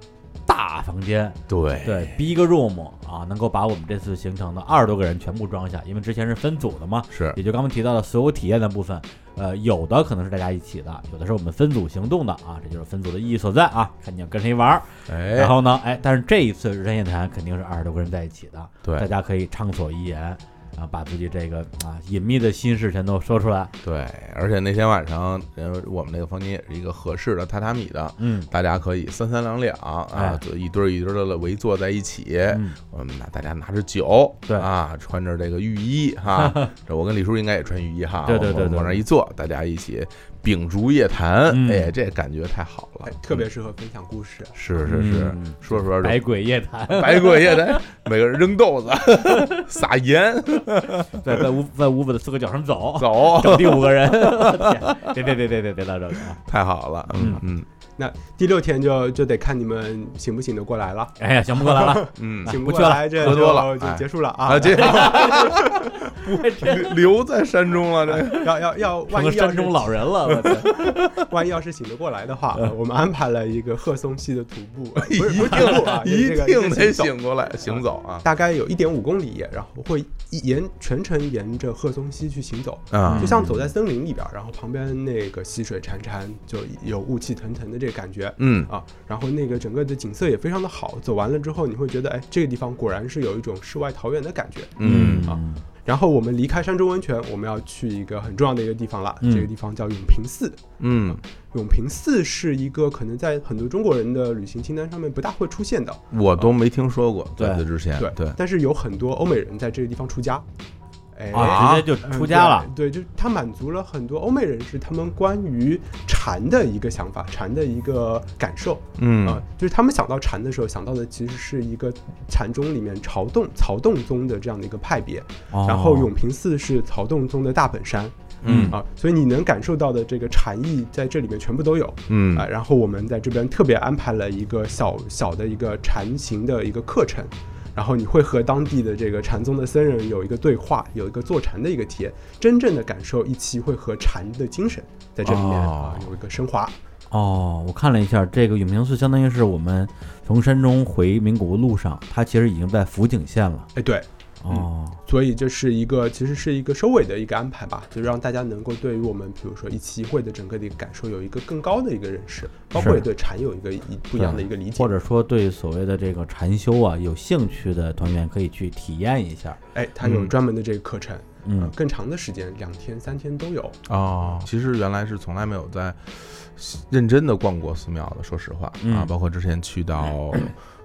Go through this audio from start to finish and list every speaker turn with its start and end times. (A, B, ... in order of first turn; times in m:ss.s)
0:00.4-0:23.7 A
0:01.5-0:02.2 B
0:07.1-0:07.4 B
0:15.1-0:15.6 B
0:23.8-0:43.4 B
0:28.2-0:28.5 A
0:30.1-0:30.4 A
0:32.5-0:32.8 A
0:36.4-0:36.7 A
0:38.2-0:39.0 A
0:41.5-0:41.9 A
0:43.0-0:44.6 C
0:44.5-0:46.2 B
0:44.9-0:47.8 A
0:46.8-0:51.3 B
0:49.3-0:49.6 A
0:51.1-0:56.4 A
0:53.0-0:55.1 B
0:56.4-0:57.7 B
0:57.1-0:57.4 A
0:58.0-1:05.9 C
1:01.2-1:03.4 A
1:02.1-1:02.6 B
1:03.1-1:08.5 B
1:04.6-1:05.6 A
1:06.2-1:06.9 A
1:08.2-1:46.0 C
1:09.1-1:11.0 A
1:15.0-1:18.3 B
1:22.9-1:23.5 B
1:23.0-1:23.5 A
1:28.4-1:28.7 B
1:34.8-1:35.3 B
1:34.8-1:35.6 A
1:39.2-1:39.5 A
1:40.8-1:41.2 B
1:46.1-1:48.4 B
1:47.4-1:47.6 A
1:48.0-1:50.4 C
1:51.1-2:08.1 C
1:51.3-1:52.7 A
1:51.3-1:51.9 B
1:59.0-1:59.4 B
2:05.5-2:06.1 A
2:08.4-2:08.8 B
2:08.4-2:08.7 A
2:08.7-2:26.8 C
2:12.1-2:12.5 B
2:25.3-2:26.1 B
2:27.1-2:33.7 A
2:33.7-2:45.0 C
2:34.4-2:35.0 A
2:42.8-2:43.0 A
2:44.2-2:49.6 A
2:49.7-2:53.8 C
2:50.0-2:50.3 B
2:51.4-2:51.7 A
2:53.9-3:00.5 B
2:58.8-2:59.1 A